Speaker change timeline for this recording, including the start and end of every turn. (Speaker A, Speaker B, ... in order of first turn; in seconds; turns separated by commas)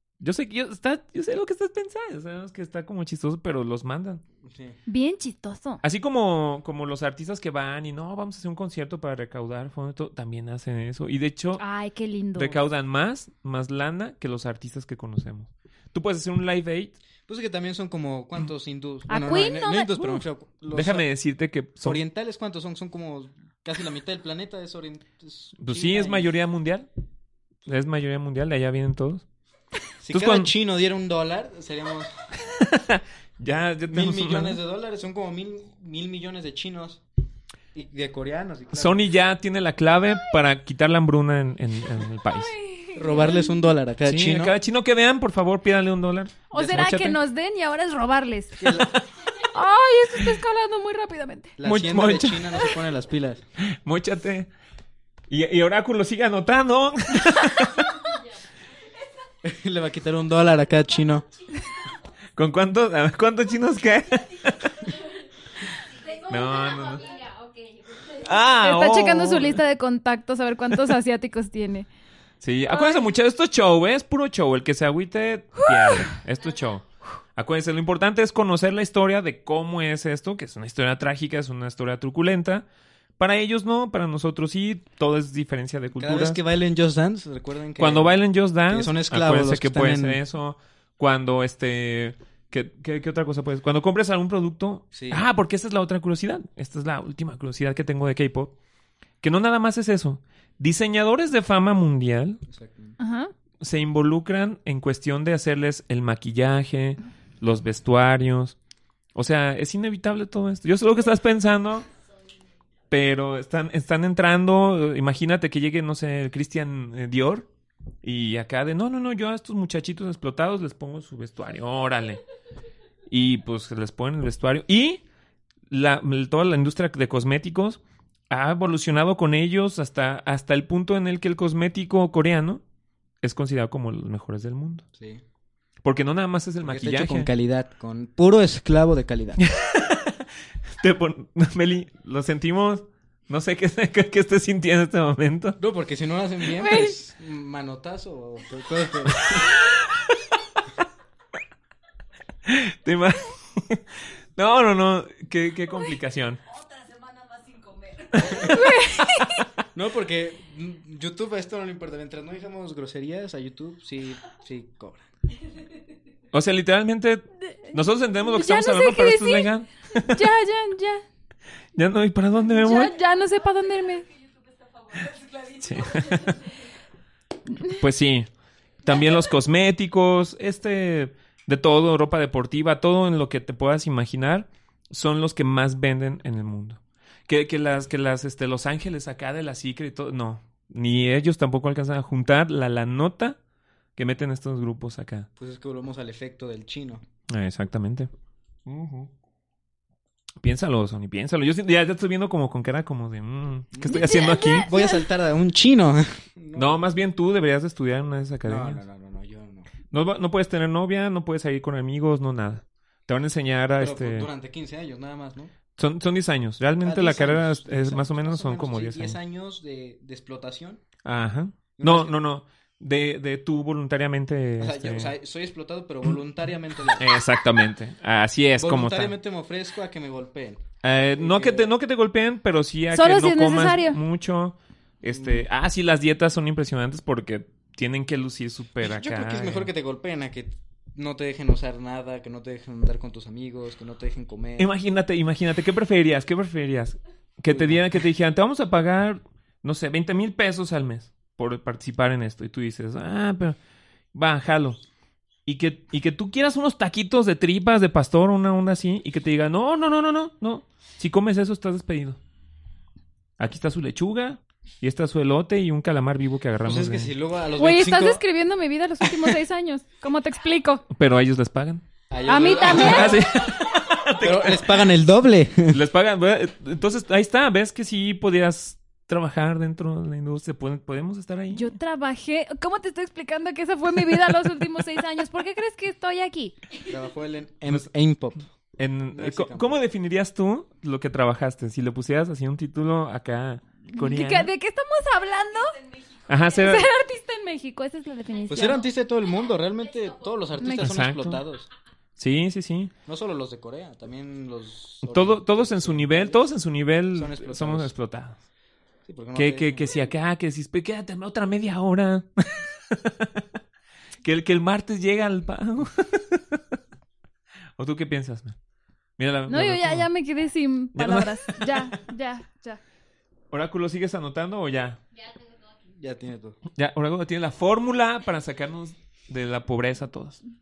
Speaker A: 0.2-4.2, Speaker B: 4.4-4.8, Speaker C: 4.9-5.8, Speaker A: 5.8-11.6, Speaker C: 11.6-12.6, Speaker A: 12.3-17.0, Speaker B: 17.3-21.1, Speaker C: 19.1-20.2, Speaker A: 20.7-22.0, Speaker B: 21.8-26.3, Speaker A: 25.6-26.9, Speaker A: 27.7-29.2, Speaker B: 30.0-32.1, Speaker A: 30.1-30.5, Speaker A: 32.5-34.6, Speaker B: 33.9-37.0, Speaker B: 37.7-39.1, Speaker A: 38.7-42.5, Speaker C: 42.4-43.6, Speaker B: 43.0-44.6, Speaker A: 44.0-47.2, Speaker C: 46.5-48.7, Speaker B: 48.6-48.9, Speaker C: 49.4-51.6, Speaker B: 51.6-53.4, Speaker A: 51.6-52.6, Speaker A: 53.8-54.5, Speaker A: 55.3-57.9, Speaker B: 59.4-61.2, Speaker A: 62.4-64.8, Speaker D: 65.8-68.4, Speaker A: 66.3-67.1, Speaker A: 68.2-69.6, Speaker C: 68.6-71.9, Speaker A: 72.4-82.7, Speaker C: 72.7-73.0, Speaker C: 75.7-76.1, Speaker A: 83.2-86.4, Speaker B: 86.0-88.2, Speaker A: 87.8-98.5, Speaker B: 88.7-90.2, Speaker B: 94.9-95.2, Speaker A: 99.2-102.4, Speaker B: 102.5-103.0, Speaker C: 103.0-103.3, Speaker A: 103.6-108.6, Speaker A: 109.2-111.9, Speaker A: 112.9-117.5, Speaker A: 118.0-122.2, Speaker A: 123.1-125.0, Speaker A: 125.7-132.6, Speaker A: 133.2-134.8, Speaker B: 135.0-135.2, Speaker A: 135.8-137.3, Speaker B: 136.6-139.4, Speaker A: 139.4-140.2, Speaker A: 140.8-145.6, Speaker B: 145.6-149.5, Speaker C: 146.6-146.9, Speaker A: 149.2-150.1, Speaker A: 152.5-156.4, Speaker D: 157.1-158.1, Speaker A: 158.2-158.6, Speaker C: 158.4-159.4, Speaker B: 159.7-165.1, Speaker A: 166.3-170.2, Speaker C: 167.5-171.0, Speaker A: 171.8-173.0, Speaker C: 172.6-174.1, Speaker A: 175.6-176.5, Speaker A: 177.7-178.3, Speaker A: 178.8-193.4, Speaker A: 194.0-195.3, Speaker B: 195.4-197.0, Speaker A: 197.3-198.1, Speaker A: 198.7-199.1, Speaker A: 200.4-204.7, Speaker B: 203.7-204.1, Speaker C: 203.9-205.0, Speaker B: 204.6-206.8, Speaker A: 206.6-208.8, Speaker B: 208.4-209.7, Speaker A: 209.9-214.3, Speaker B: 213.8-215.5, Speaker A: 215.8-219.2, Speaker B: 216.8-220.8, Speaker A: 221.1-225.1, Speaker B: 221.8-222.2, Speaker B: 224.6-227.1, Speaker A: 227.0-229.1, Speaker B: 228.6-230.6, Speaker A: 230.8-239.7, Speaker B: 231.2-231.7, Speaker C: 232.9-234.0, Speaker B: 235.1-235.4, Speaker B: 238.8-244.7, Speaker A: 244.6-253.6, Speaker B: 247.5-247.8, Speaker A: 254.1-254.8, Speaker A: 255.5-262.2, Speaker A: 263.4-267.1, Speaker B: 266.6-268.2, Speaker C: 267.6-270.8, Speaker A: 270.9-271.8, Speaker B: 272.1-273.5, Speaker C: 272.3-273.2, Speaker A: 272.5-274.8, Speaker B: 274.1-275.8, Speaker A: 275.7-281.8, Speaker C: 281.5-286.6, Speaker B: 286.9-288.5, Speaker A: 288.8-294.5, Speaker B: 289.1-289.8, Speaker C: 293.9-295.8, Speaker A: 296.3-296.9, Speaker C: 296.6-298.9, Speaker B: 298.5-301.7, Speaker D: 299.9-300.2, Speaker C: 300.6-300.9, Speaker A: 300.8-301.4, Speaker A: 302.2-302.9, Speaker B: 303.1-306.5, Speaker A: 305.0-308.4, Speaker B: 307.1-307.9, Speaker B: 309.1-310.0, Speaker A: 309.4-313.4, Speaker A: 314.2-316.6, Speaker A: 317.8-318.6, Speaker A: 319.2-320.1, Speaker C: 319.5-322.8, Speaker A: 320.9-322.0, Speaker A: 323.5-325.0, Speaker D: 325.1-325.8, Speaker B: 326.0-326.6, Speaker A: 326.8-330.4